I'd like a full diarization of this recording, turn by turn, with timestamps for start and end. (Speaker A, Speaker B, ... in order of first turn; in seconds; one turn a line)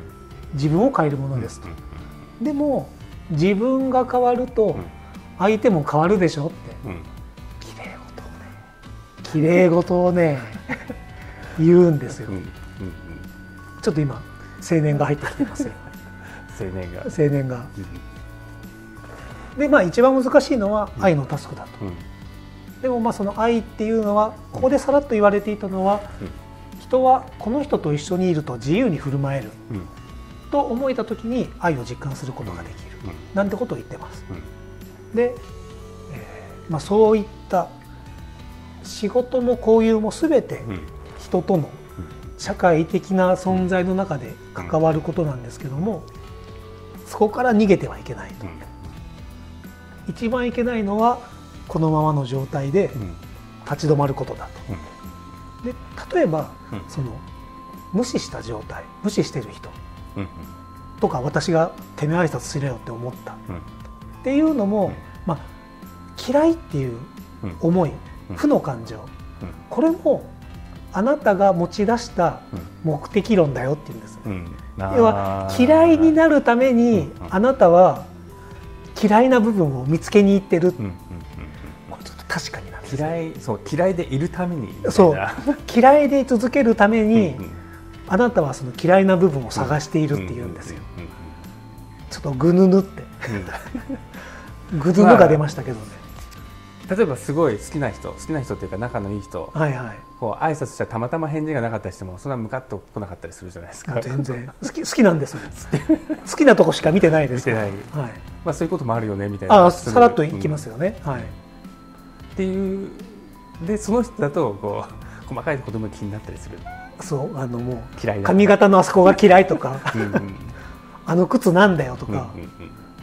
Speaker A: 0.5-1.8
Speaker A: 2.4-6.8
Speaker A: 7.6-8.5
Speaker A: 9.2-10.8
Speaker A: 11.6-12.4
Speaker B: 12.3-13.3
Speaker A: 13.8-15.8
Speaker B: 16.5-17.1
Speaker A: 17.1-17.7
Speaker A: 19.6-21.8
Speaker A: 22.8-26.1
Speaker A: 26.8-29.6
Speaker A: 30.5-34.2
Speaker A: 35.1-35.4
Speaker A: 36.1-37.7
Speaker A: 38.8-41.8
Speaker A: 42.4-46.1
Speaker A: 47.1-48.6
Speaker A: 50.1-53.1
Speaker A: 53.6-54.8
Speaker A: 55.6-57.2
Speaker A: 57.9-59.8
Speaker A: 61.0-63.4
Speaker A: 64.2-65.5
Speaker A: 66.2-69.1
Speaker A: 69.7-70.3
Speaker A: 70.9-74.3
Speaker B: 74.2-76.2
Speaker A: 74.9-78.1
Speaker A: 79.0-80.8
Speaker B: 80.8-81.5
Speaker A: 81.9-83.2
Speaker B: 82.8-85.6
Speaker A: 84.8-87.5
Speaker B: 87.2-87.5
Speaker A: 88.1-90.9
Speaker B: 90.1-91.1
Speaker A: 92.1-93.7
Speaker B: 93.3-93.9
Speaker A: 94.7-96.0
Speaker B: 94.9-95.5
Speaker B: 96.9-99.6
Speaker A: 99.5-100.0
Speaker B: 100.2-104.4
Speaker A: 103.9-105.6
Speaker B: 105.5-106.2
Speaker A: 106.2-108.2
Speaker B: 107.3-107.9
Speaker B: 108.4-110.6
Speaker A: 109.5-111.3
Speaker B: 112.3-116.7
Speaker A: 117.0-120.2
Speaker B: 118.0-118.5
Speaker B: 119.9-120.6
Speaker A: 121.1-122.4
Speaker B: 122.1-122.8